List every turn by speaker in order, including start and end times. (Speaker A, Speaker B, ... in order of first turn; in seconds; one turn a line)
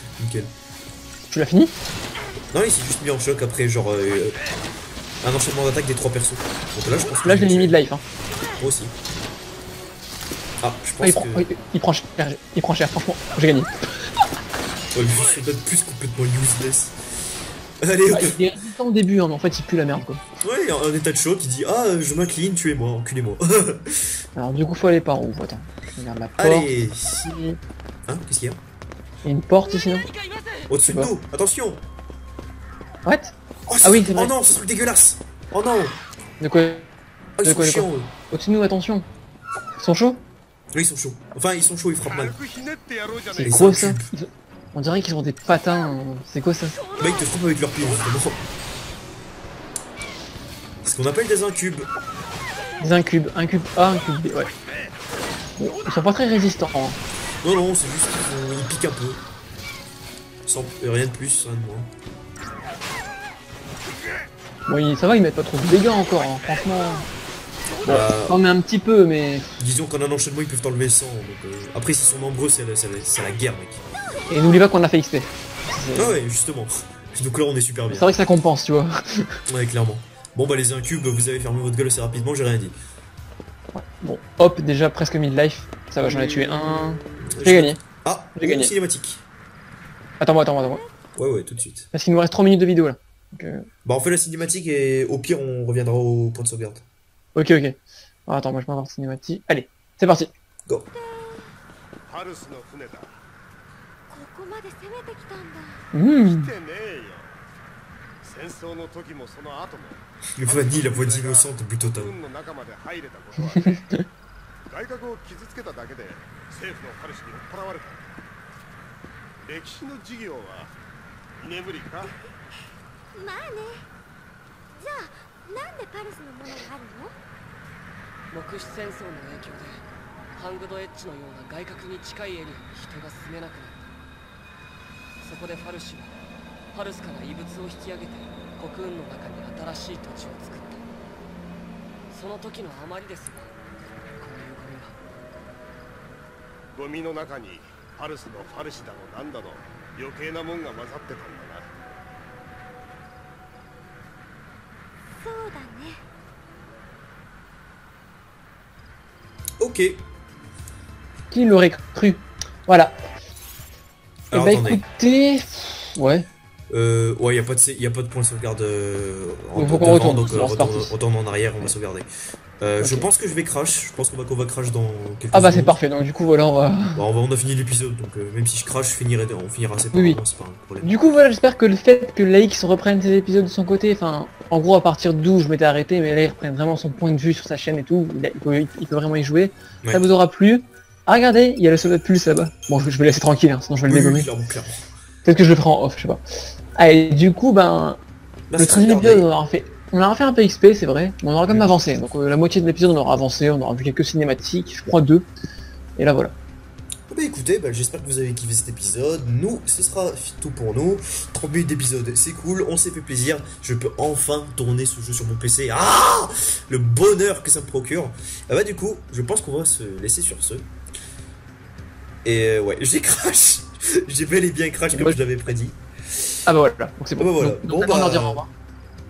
Speaker A: 0.2-0.5
Speaker B: 1.3-1.8
Speaker A: 2.5-4.4
Speaker A: 5.2-7.8
Speaker B: 7.2-8.0
Speaker A: 8.4-8.9
Speaker A: 10.6-11.5
Speaker B: 11.0-13.7
Speaker A: 14.9-17.0
Speaker A: 17.8-18.4
Speaker B: 18.1-20.2
Speaker A: 20.4-24.2
Speaker B: 24.4-26.7
Speaker A: 26.4-27.4
Speaker B: 27.3-27.6
Speaker A: 28.1-28.6
Speaker B: 29.2-30.1
Speaker C: 29.8-30.7
Speaker A: 30.7-31.8
Speaker B: 30.9-31.1
Speaker B: 33.0-34.3
Speaker A: 33.7-36.0
Speaker B: 36.4-36.9
Speaker A: 37.4-38.1
Speaker B: 37.4-39.1
Speaker B: 39.8-40.2
Speaker A: 40.7-42.4
Speaker D: 42.5-43.2
Speaker B: 43.3-46.8
Speaker A: 43.4-44.1
Speaker A: 47.0-48.5
Speaker A: 50.8-51.9
Speaker B: 52.8-54.5
Speaker B: 55.6-57.0
Speaker A: 57.4-59.2
Speaker A: 60.5-61.9
Speaker B: 64.7-67.1
Speaker A: 67.8-68.4
Speaker B: 67.8-69.6
Speaker A: 69.6-73.8
Speaker B: 74.3-76.2
Speaker A: 76.0-78.1
Speaker B: 77.9-79.4
Speaker A: 79.5-82.8
Speaker B: 83.7-87.8
Speaker A: 86.0-89.2
Speaker B: 88.4-88.7
Speaker B: 90.2-90.8
Speaker A: 91.2-91.9
Speaker B: 91.9-93.7
Speaker A: 93.8-96.8
Speaker B: 97.3-100.3
Speaker E: 100.9-101.5
Speaker D: 102.1-103.1
Speaker E: 104.1-105.8
Speaker B: 105.9-106.5
Speaker D: 106.5-107.3
Speaker D: 108.2-110.0
Speaker A: 110.3-112.2
Speaker D: 110.7-111.0
Speaker D: 112.0-113.8
Speaker B: 113.5-114.0
Speaker D: 114.7-118.0
Speaker D: 119.4-120.7
Speaker D: 121.4-122.1
Speaker E: 123.2-123.8
Speaker E: 124.8-127.1
Speaker C: 128.3-129.8
Speaker C: 130.4-133.9
Speaker C: 135.2-136.1
Speaker C: 136.7-140.8
Speaker C: 142.1-143.5
Speaker C: 144.2-145.0
Speaker D: 146.7-151.7
Speaker E: 155.2-156.0
Speaker A: 159.6-160.0
Speaker B: 161.3-163.0
Speaker A: 164.3-164.8
Speaker B: 164.3-166.3
Speaker A: 166.7-175.8
Speaker B: 169.6-170.9
Speaker B: 172.8-173.1
Speaker B: 175.3-177.0
Speaker A: 176.9-180.9
Speaker B: 179.9-180.2
Speaker B: 180.8-194.3
Speaker A: 193.9-194.8
Speaker B: 195.2-196.2
Speaker B: 196.8-198.0
Speaker A: 198.5-199.3
Speaker B: 198.6-205.3
Speaker A: 201.5-201.7
Speaker B: 206.0-206.3
Speaker A: 207.1-220.7
Speaker A: 222.2-225.8
Speaker B: 224.9-225.2
Speaker B: 226.5-228.5
Speaker A: 227.2-228.4